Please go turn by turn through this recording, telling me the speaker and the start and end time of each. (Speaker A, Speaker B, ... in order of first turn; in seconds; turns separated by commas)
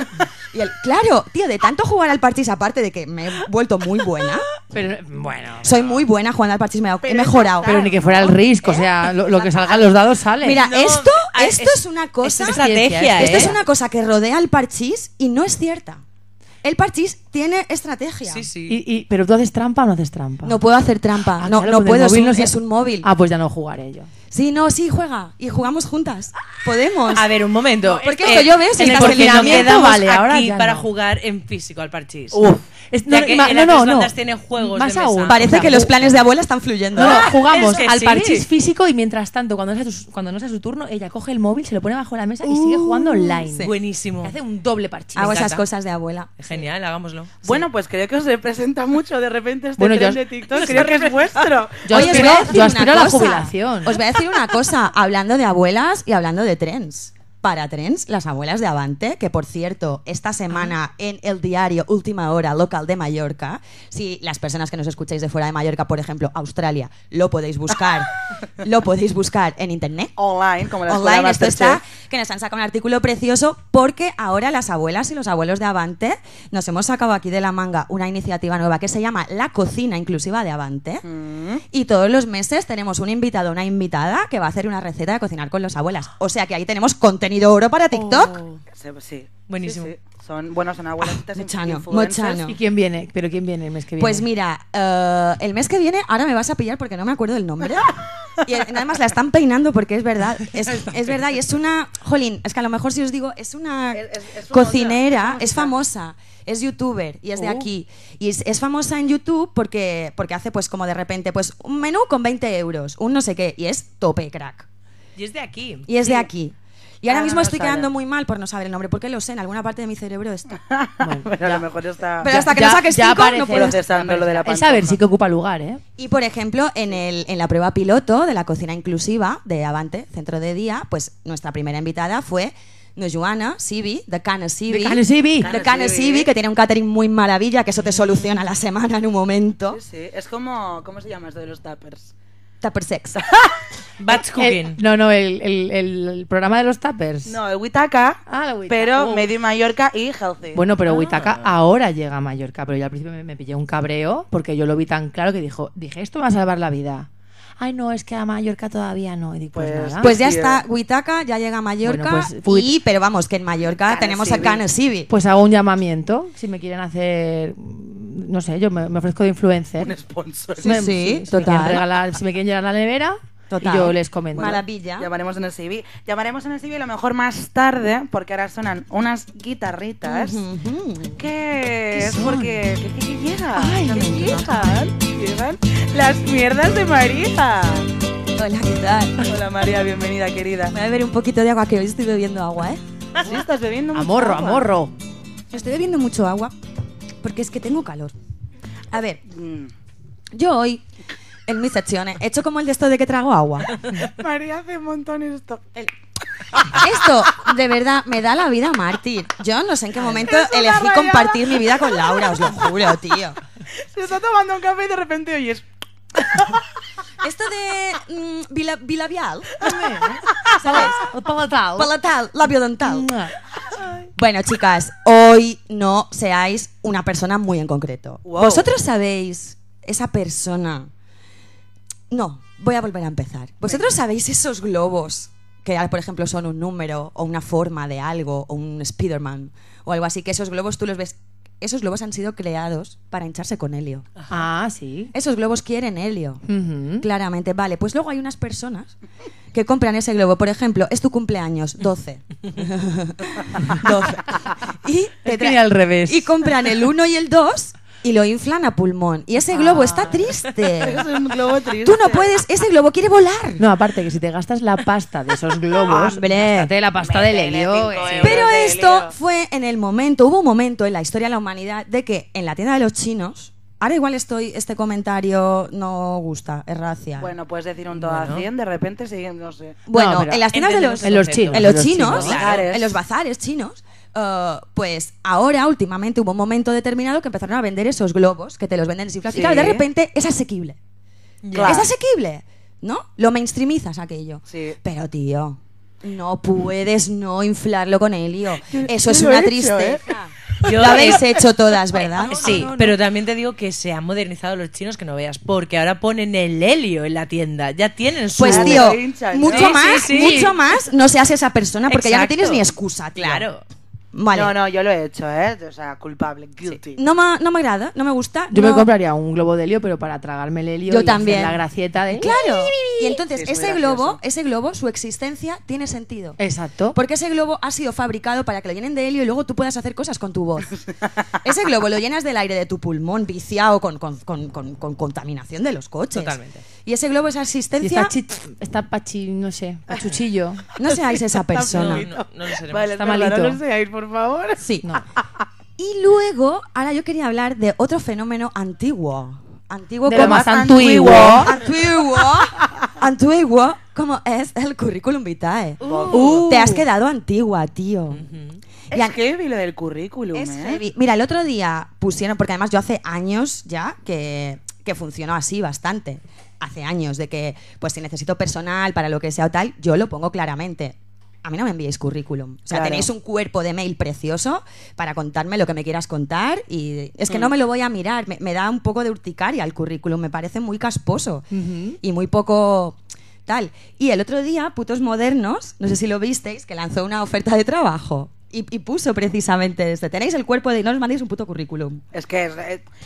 Speaker A: 0.4-4.5, Speaker B: 4.7-6.0, Speaker A: 5.6-7.9, Speaker C: 7.0-8.4, Speaker B: 7.6-10.6, Speaker C: 9.2-9.9, Speaker A: 10.4-16.0, Speaker D: 10.5-13.6, Speaker B: 12.4-13.6, Speaker A: 16.6-18.5, Speaker D: 18.3-18.8, Speaker B: 18.7-20.6, Speaker A: 20.4-23.1, Speaker B: 21.4-24.1, Speaker A: 24.3-27.3, Speaker D: 27.1-32.4, Speaker A: 27.8-29.8, Speaker B: 28.7-30.9, Speaker B: 32.3-35.9, Speaker D: 33.1-36.2, Speaker A: 35.3-37.4, Speaker D: 37.0-38.5, Speaker B: 37.0-45.5, Speaker A: 42.4-43.7, Speaker D: 43.6-44.4, Speaker A: 45.1-46.3, Speaker D: 45.2-45.6, Speaker D: 46.4-47.5, Speaker C: 47.4-52.5, Speaker B: 49.8-51.0, Speaker D: 50.5-51.5, Speaker B: 51.8-54.0, Speaker A: 51.9-70.1, Speaker C: 70.2-71.8, Speaker A: 70.8-81.0, Speaker C: 81.0-81.6, Speaker A: 81.7-88.4, Speaker D: 87.9-88.6, Speaker C: 88.7-92.5, Speaker D: 89.5-89.9, Speaker A: 91.3-92.6, Speaker B: 92.4-94.3, Speaker A: 94.0-114.7, Speaker C: 103.9-105.7, Speaker D: 115.2-115.9, Speaker A: 115.9-120.6, Speaker C: 117.1-117.9, Speaker C: 120.5-122.5, Speaker B: 121.0-121.3, Speaker A: 122.2-123.8, Speaker B: 122.2-125.8, Speaker C: 123.5-125.0, Speaker A: 126.0-139.8, Speaker B: 134.7-135.5, Speaker C: 135.4-136.3, Speaker C: 139.7-142.1, Speaker A: 142.6-143.2, Speaker D: 144.0-144.8, Speaker B: 144.1-147.4, Speaker C: 147.2-150.6, Speaker B: 148.3-149.3, Speaker B: 150.5-157.1, Speaker D: 150.8-151.5, Speaker B: 157.6-160.1, Speaker C: 159.5-160.6, Speaker A: 160.0-165.1, Speaker B: 161.8-162.7, Speaker C: 163.8-164.6, Speaker B: 165.1-169.9, Speaker C: 169.8-170.8, Speaker A: 170.6-171.8, Speaker B: 170.6-174.6, Speaker A: 173.5-175.1, Speaker C: 174.4-180.4, Speaker A: 180.0-181.2, Speaker C: 181.2-187.9, Speaker A: 181.9-182.5, Speaker A: 183.5-184.5, Speaker A: 188.3-189.3, Speaker C: 189.2-190.7, Speaker A: 190.7-192.8, Speaker C: 193.2-194.7, Speaker B: 193.9-194.9, Speaker A: 195.5-196.5, Speaker A: 197.2-198.1, Speaker A: 198.9-199.2, Speaker C: 199.3-199.7, Speaker A: 200.3-200.8, Speaker A: 201.5-203.8, Speaker C: 204.0-205.7, Speaker A: 206.6-213.4, Speaker C: 210.1-212.5, Speaker C: 213.8-216.6, Speaker A: 217.2-219.7, Speaker B: 219.6-221.9, Speaker C: 220.4-220.9, Speaker A: 220.6-221.0, Speaker A: 221.8-223.1, Speaker B: 222.8-223.3, Speaker A: 224.1-230.9, Speaker C: 228.2-228.7, Speaker A: 232.1-244.1, Speaker B: 244.3-245.1, Speaker A: 245.1-246.4, Speaker B: 246.4-247.1, Speaker A: 247.0-248.9, Speaker A: 249.5-261.1, Speaker B: 255.2-256.3, Speaker B: 259.5-260.3, Speaker C: 260.8-262.3, Speaker A: 261.8-263.6, Speaker B: 263.6-268.4, Speaker A: 265.8-266.7, Speaker C: 267.0-269.1, Speaker A: 268.2-277.3, Speaker C: 277.2-279.8, Speaker D: 277.9-278.5, Speaker A: 279.9-290.8, Speaker B: 279.9-280.5, Speaker D: 280.5-282.7, Speaker B: 281.0-282.4, Speaker C: 282.4-282.9, Speaker C: 289.3-289.8, Speaker D: 291.4-291.9, Speaker C: 291.5-291.9, Speaker A: 291.6-302.7, Speaker C: 294.5-294.8, Speaker C: 298.7-300.0, Speaker D: 300.6-301.3, Speaker B: 302.1-303.0, Speaker D: 302.4-310.5, Speaker A: 308.4-313.5, Speaker C: 308.4-309.8, Speaker D: 311.9-313.6, Speaker A: 314.1-314.6, Speaker C: 314.3-317.0, Speaker A: 316.9-318.9, Speaker B: 318.5-322.3, Speaker A: 320.9-326.4, Speaker C: 323.3-324.2, Speaker B: 326.4-327.0, Speaker A: 326.9-330.7, Speaker A: 331.4-338.1, Speaker D: 336.1-336.6, Speaker B: 337.8-340.6, Speaker A: 340.8-342.1, Speaker C: 340.8-344.6, Speaker D: 341.6-342.9, Speaker B: 342.9-343.6, Speaker A: 344.6-345.0, Speaker A: 345.8-358.2, Speaker B: 350.1-351.5, Speaker C: 350.1-351.8, Speaker C: 355.8-356.5, Speaker D: 355.8-356.4, Speaker B: 356.1-356.8, Speaker D: 358.1-358.6, Speaker A: 358.9-359.2, Speaker C: 358.9-360.8, Speaker A: 360.3-381.5, Speaker C: 372.7-373.1, Speaker B: 381.5-382.0, Speaker A: 382.0-392.0, Speaker C: 392.1-392.8